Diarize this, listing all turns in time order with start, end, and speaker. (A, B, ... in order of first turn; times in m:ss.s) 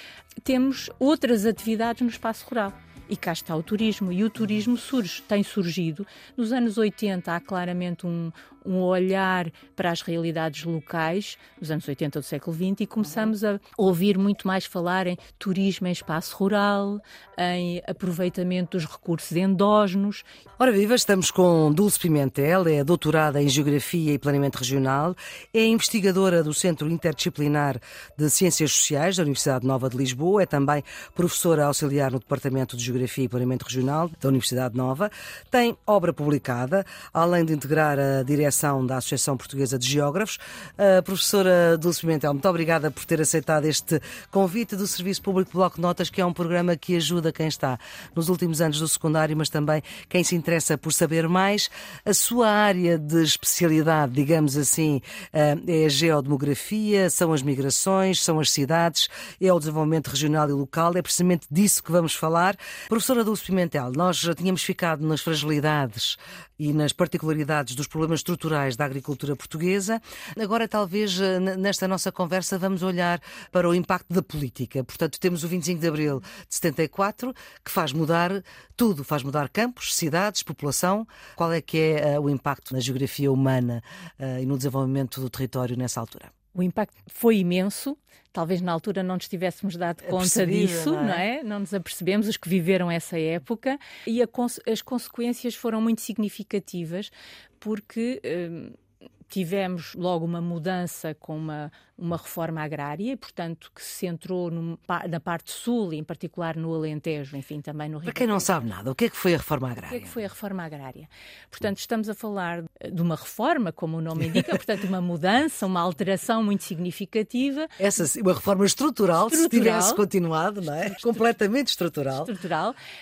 0:00.4-0:20.2 A
0:13.0-0:13.3 B
0:20.6-1:26.3 B
1:26.5-1:38.8 A
1:30.0-1:31.2 B
1:39.3-1:48.6 A
1:48.0-1:50.2 B
1:49.8-1:57.7 A
1:57.8-2:02.3 B
1:59.2-2:00.0 A
2:02.2-2:02.8 A